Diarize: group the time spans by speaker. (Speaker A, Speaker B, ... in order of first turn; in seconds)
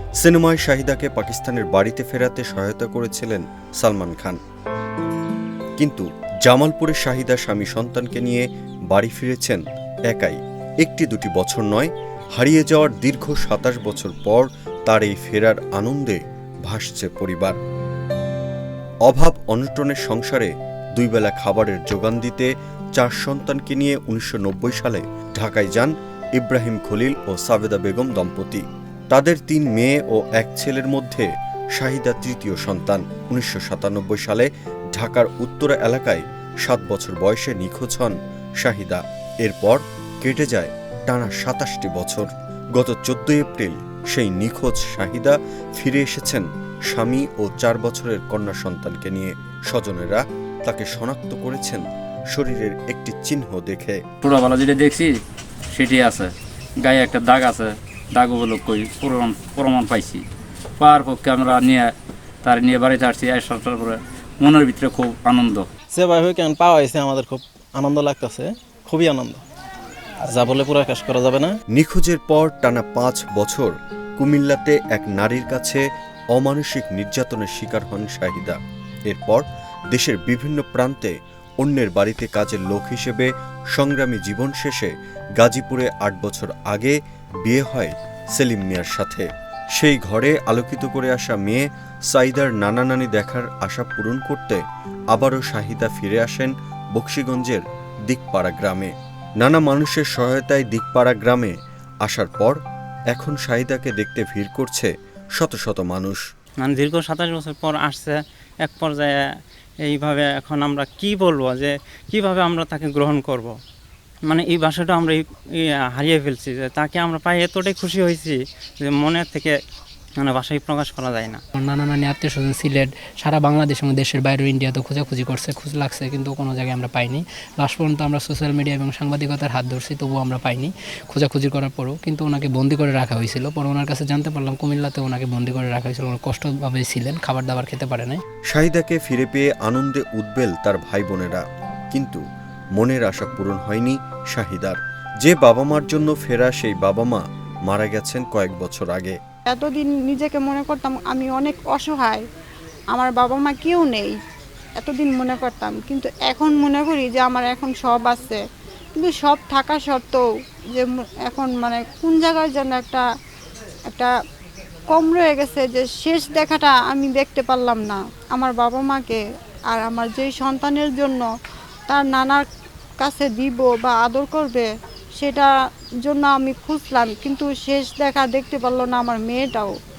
Speaker A: 0.2-4.4, 5.8-17.6, 19.1-54.0, 71.7-102.6, 103.1-106.2, 138.5-142.2, 142.8-149.2
Speaker B: 54.2-55.2, 55.7-60.2, 60.8-61.9, 62.4-65.7
Speaker C: 65.9-69.4, 70.2-71.5
Speaker D: 106.6-109.2, 109.9-113.5, 114.3-119.6, 120.2-121.4
Speaker E: 121.6-138.2
Speaker F: 149.5-152.2, 152.9-154.2, 154.8-158.4, 159.0-160.2, 160.8-163.0, 164.9-171.2, 171.9-172.4, 173.0-175.5, 176.1-179.7